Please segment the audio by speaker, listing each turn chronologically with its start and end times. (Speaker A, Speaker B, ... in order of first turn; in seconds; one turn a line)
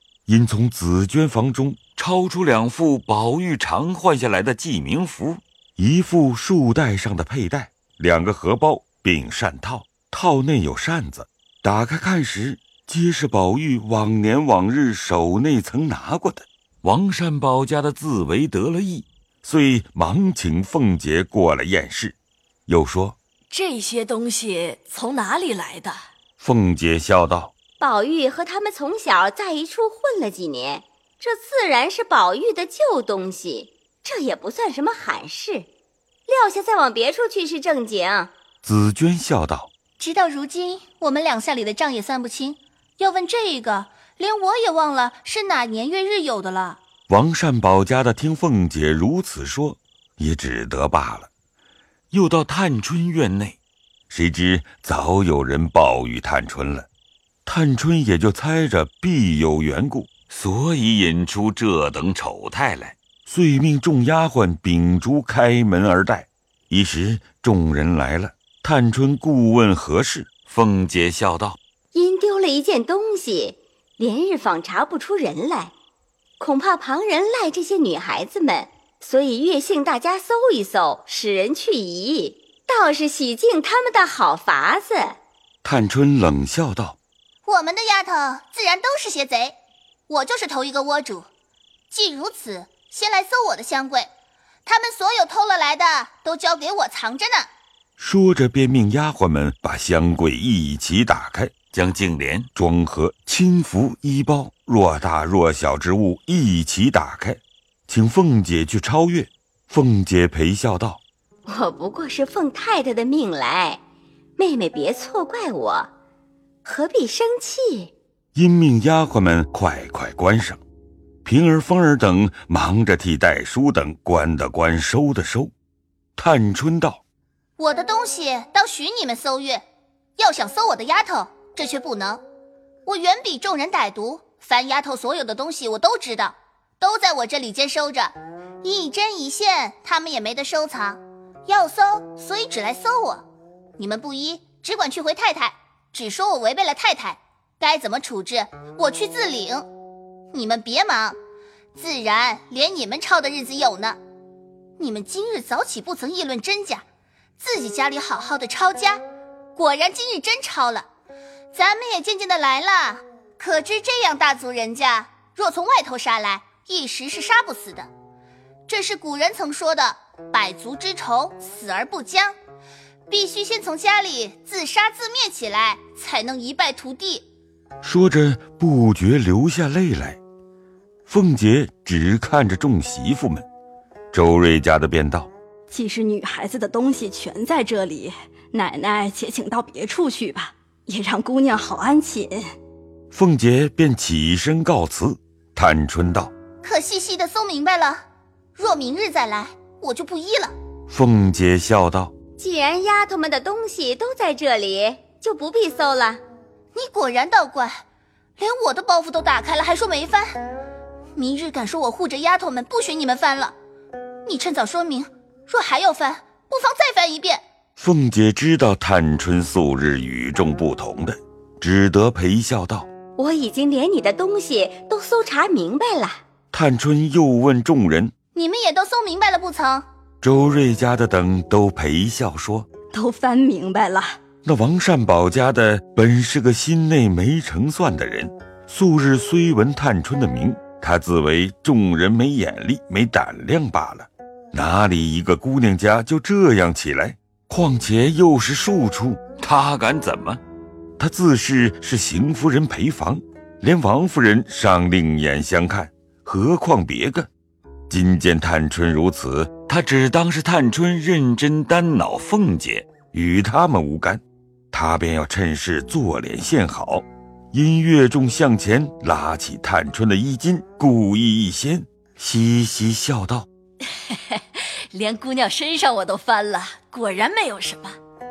Speaker A: 0.3-22.1
Speaker A: 22.7-23.2
Speaker B: 23.5-26.1
Speaker A: 26.4-27.5
Speaker C: 27.8-35.7
Speaker C: 36.3-38.3
Speaker A: 38.6-39.7
Speaker D: 40.0-46.8
Speaker A: 47.1-51.3
Speaker A: 52.1-53.6
Speaker A: 54.1-56.9
Speaker A: 57.5-71.6
Speaker C: 71.9-75.7
Speaker C: 76.4-85.2
Speaker A: 85.6-87.0
Speaker D: 87.5-89.5
Speaker D: 90.1-91.2
Speaker D: 91.9-94.1
Speaker D: 94.7-97.5
Speaker A: 98.0-111.0
Speaker C: 111.5-113.8
Speaker C: 114.4-115.9
Speaker C: 116.6-117.9
Speaker A: 118.3-120.6
Speaker A: 121.2-125.5
Speaker A: 126.2-127.0
Speaker D: 127.6-129.6
Speaker D: 130.2-132.2
Speaker D: 132.9-143.2
Speaker D: 143.8-149.6
Speaker D: 150.3-151.1
Speaker D: 151.8-154.0
Speaker D: 154.8-156.8
Speaker D: 157.4-159.0
Speaker D: 159.6-160.8
Speaker D: 161.5-167.9
Speaker D: 168.7-172.3
Speaker D: 173.1-177.2
Speaker A: 177.8-180.2
Speaker A: 181.1-183.4
Speaker A: 184.1-185.3
Speaker E: 185.7-192.5
Speaker A: 193.1-196.3
Speaker D: 196.6-198.0
Speaker D: 198.6-200.5
Speaker A: 200.9-202.1
Speaker C: 202.4-206.2
Speaker D: 206.7-207.8
Speaker D: 208.4-210.2
Speaker D: 211.2-213.5
Speaker D: 214.3-217.4
Speaker A: 217.8-222.9
Speaker C: 223.2-226.2
Speaker A: 226.5-228.1
Speaker D: 228.3-229.8
Speaker A: 230.2-232.7
Speaker E: 232.9-234.2
Speaker A: 234.4-250.4
Speaker A: 251.0-257.3
Speaker A: 257.9-273.5
Speaker B: 274.1-278.0